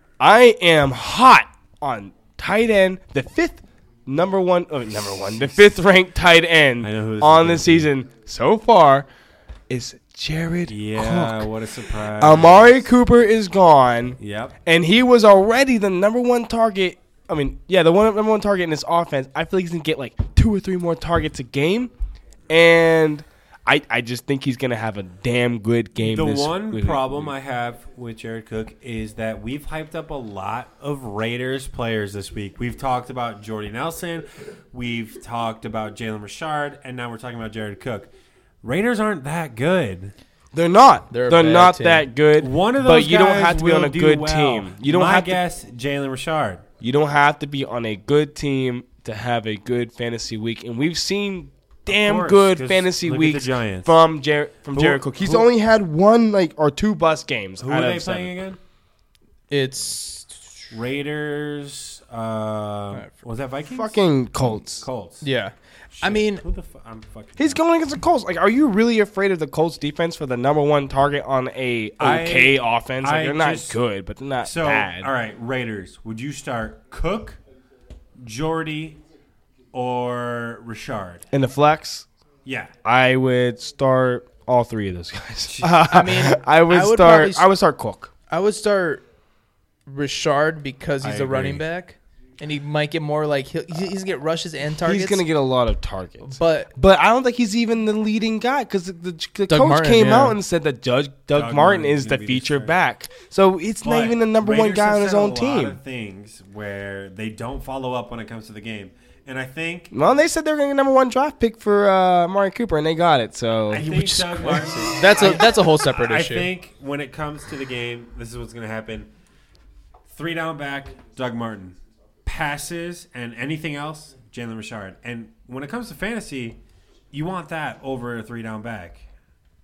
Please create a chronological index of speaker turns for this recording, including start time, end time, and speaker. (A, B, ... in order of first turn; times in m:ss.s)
0:00.2-0:09.1 A
0:06.8-0:07.9 B
0:09.7-0:11.5 A
0:10.7-0:12.8 B
0:12.1-0:21.9 A
0:14.2-0:14.6 B
0:22.5-0:27.3 A
0:26.0-0:38.1 B
0:38.6-0:40.1 B
0:40.5-0:45.4 A
0:41.1-0:42.1 C
0:42.4-0:46.6 B
0:46.8-0:58.4 A
0:51.9-0:53.9 B
0:54.7-0:55.5 B
0:57.6-0:58.6 B
0:59.5-1:00.3 C
1:00.7-1:05.2 B
1:03.6-1:04.8 A
1:05.2-1:06.4 C
1:05.9-1:07.6 B
1:07.4-1:15.1 A
1:12.0-1:13.8 B
1:14.4-1:17.4 B
1:18.2-1:19.0 B
1:19.7-1:21.2 B
1:21.3-1:22.0 A
1:22.4-1:22.7 B
1:22.8-1:28.1 A
1:25.4-1:25.9 B
1:25.9-1:27.5 C
1:28.3-1:29.0 C
1:29.8-1:35.2 C
1:31.0-1:31.6 B
1:34.8-1:45.8 A
1:36.3-1:36.7 C
1:39.5-1:40.4 C
1:41.3-1:42.8 B
1:43.8-1:49.9 B
1:49.9-1:53.9 A
1:53.7-1:59.1 B
1:53.8-1:56.5 C
2:00.1-2:06.6 B
2:07.1-2:09.0 B